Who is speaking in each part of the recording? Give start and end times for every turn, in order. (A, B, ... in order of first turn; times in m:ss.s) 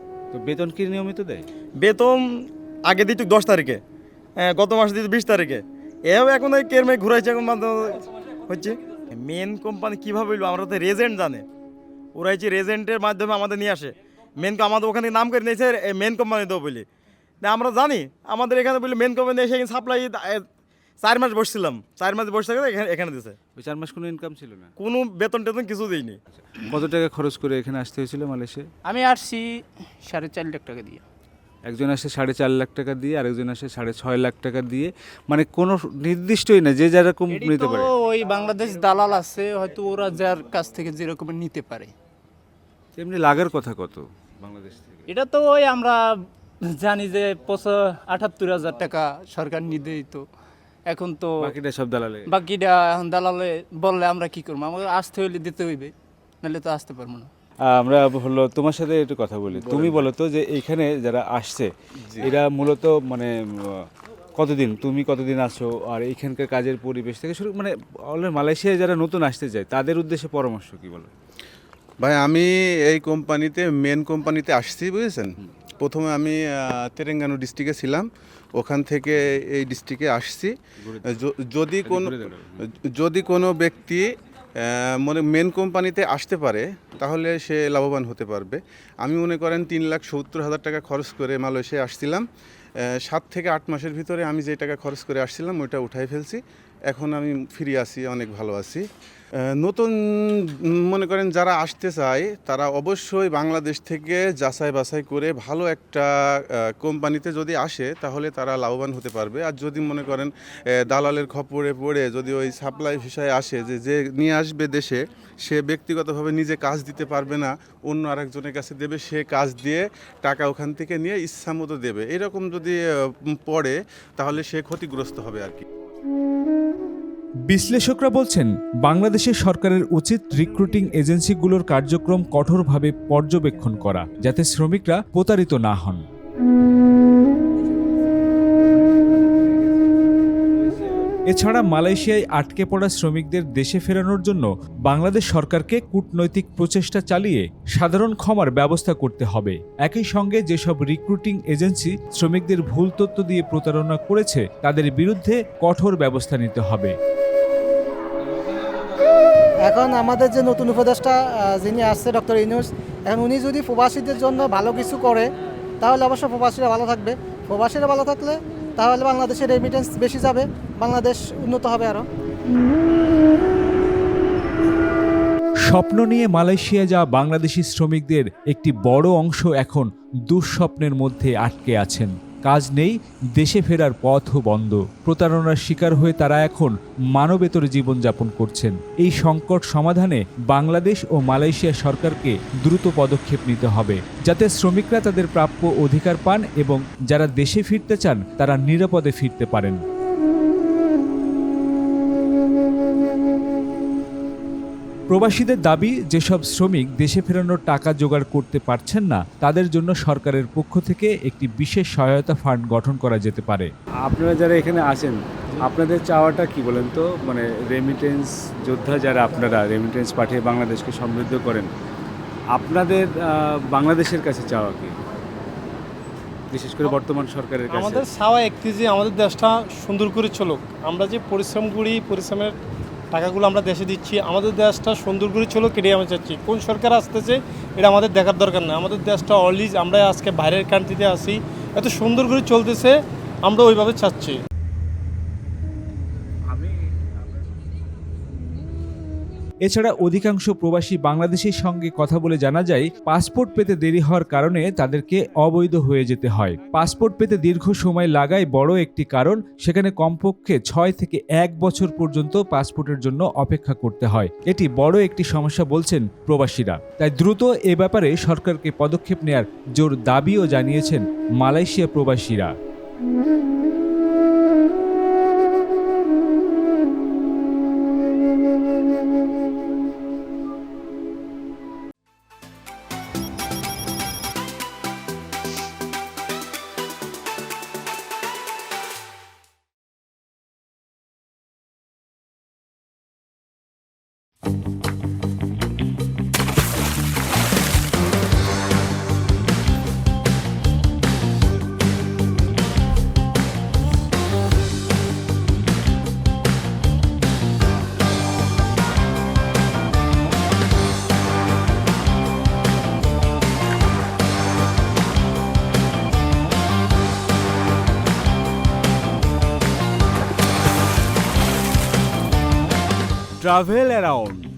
0:00.3-0:01.4 A
0:01.8-0:02.2 B
0:02.9-0:03.8 B
0:04.4-0:11.4 B
0:12.2-0:16.8 B
0:17.4-0:20.4 B
0:21.0-0:23.4 B
0:23.6-0:24.7 A
0:24.8-0:26.2 B
0:26.4-0:28.7 A
0:28.8-0:31.0 C
0:31.7-0:37.9 A
0:37.3-0:41.9 C
0:43.0-0:45.0 A
0:45.1-0:46.0 C
0:46.7-0:50.2 C
0:50.9-0:51.5 C
0:51.4-0:52.3 A
0:52.3-0:57.3 C
0:57.7-1:11.1 A
0:59.6-1:00.1 D
1:12.0-1:18.1 D
1:18.6-1:20.6 D
1:20.8-1:21.2 A
1:21.1-1:24.1 D
1:21.8-1:22.6 A
1:24.6-1:32.2 D
1:32.8-1:38.8 D
1:39.6-2:02.8 D
2:03.4-2:05.6 D
2:07.5-2:16.0 E
2:18.9-2:21.1 A
2:21.3-2:37.0 E
2:39.6-2:45.3 F
2:45.8-2:52.1 F
2:55.7-3:19.8 E
3:25.1-3:33.7 E
3:34.0-3:41.7 A
3:42.5-3:45.0 A
3:46.5-3:48.1 A
3:47.7-3:52.5 G
3:53.1-4:04.4 G
4:06.5-4:07.4 A
4:09.6-4:32.6 E
5:23.5-5:24.4 A